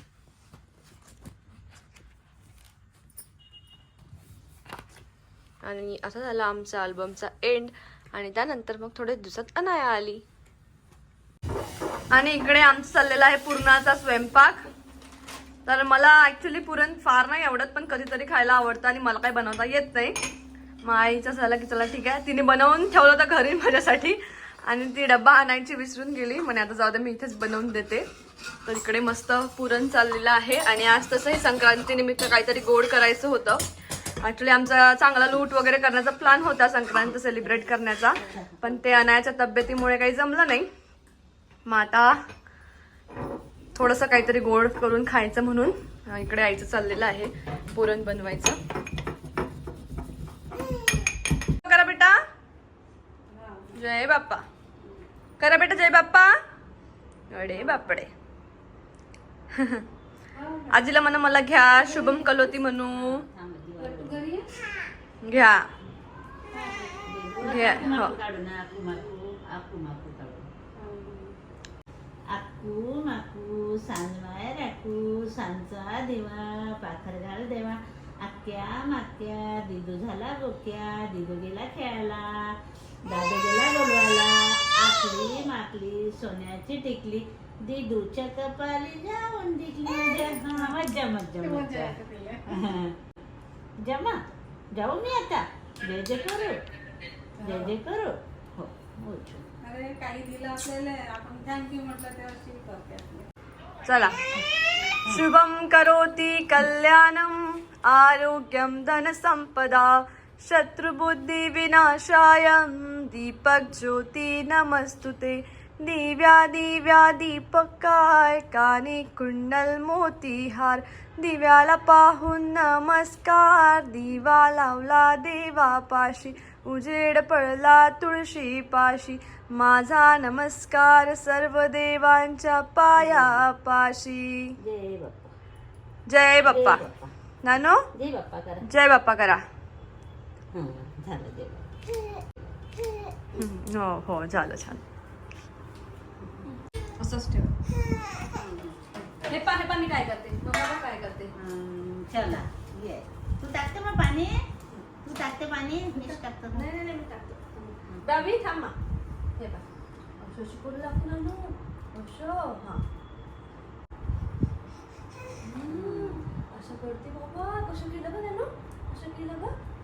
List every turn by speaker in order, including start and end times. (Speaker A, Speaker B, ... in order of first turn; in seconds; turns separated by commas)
Speaker A: 5.6-10.2, Speaker A: 12.1-14.6, Speaker A: 15.7-20.1, Speaker A: 20.8-28.0, Speaker A: 28.6-33.6, Speaker A: 34.2-40.7, Speaker A: 41.6-42.2, Speaker A: 43.7-48.6, Speaker A: 51.6-52.2, Speaker B: 53.3-53.8, Speaker A: 53.7-54.4, Speaker A: 55.4-56.3, Speaker A: 57.3-58.1, Speaker A: 59.5-59.8, Speaker B: 60.3-60.9, Speaker A: 60.7-63.2, Speaker B: 61.4-62.5, Speaker C: 62.9-64.3, Speaker B: 63.8-64.5, Speaker A: 65.2-65.7, Speaker B: 66.5-68.0, Speaker C: 67.0-70.5, Speaker A: 67.4-68.2, Speaker B: 70.8-71.3, Speaker C: 72.3-82.5, Speaker C: 83.1-92.0, Speaker B: 90.5-90.8, Speaker B: 91.4-92.4, Speaker C: 92.5-93.0, Speaker C: 93.8-94.2, Speaker C: 94.7-96.6, Speaker B: 97.4-97.7, Speaker C: 97.4-99.5, Speaker B: 99.6-103.3, Speaker A: 103.8-104.1, Speaker A: 104.9-134.6, Speaker C: 133.0-133.5, Speaker C: 134.6-135.3, Speaker A: 136.1-136.8, Speaker C: 136.4-137.1, Speaker A: 137.4-137.8, Speaker C: 137.9-138.6, Speaker A: 138.7-139.4, Speaker C: 140.5-141.7, Speaker A: 143.3-144.8, Speaker A: 147.0-147.5, Speaker C: 148.3-148.8, Speaker A: 149.2-151.3, Speaker C: 151.3-154.4, Speaker C: 155.0-156.7, Speaker A: 155.9-158.7, Speaker C: 157.9-158.4, Speaker A: 159.4-159.6, Speaker A: 160.2-162.8, Speaker C: 165.5-166.3, Speaker A: 165.5-169.5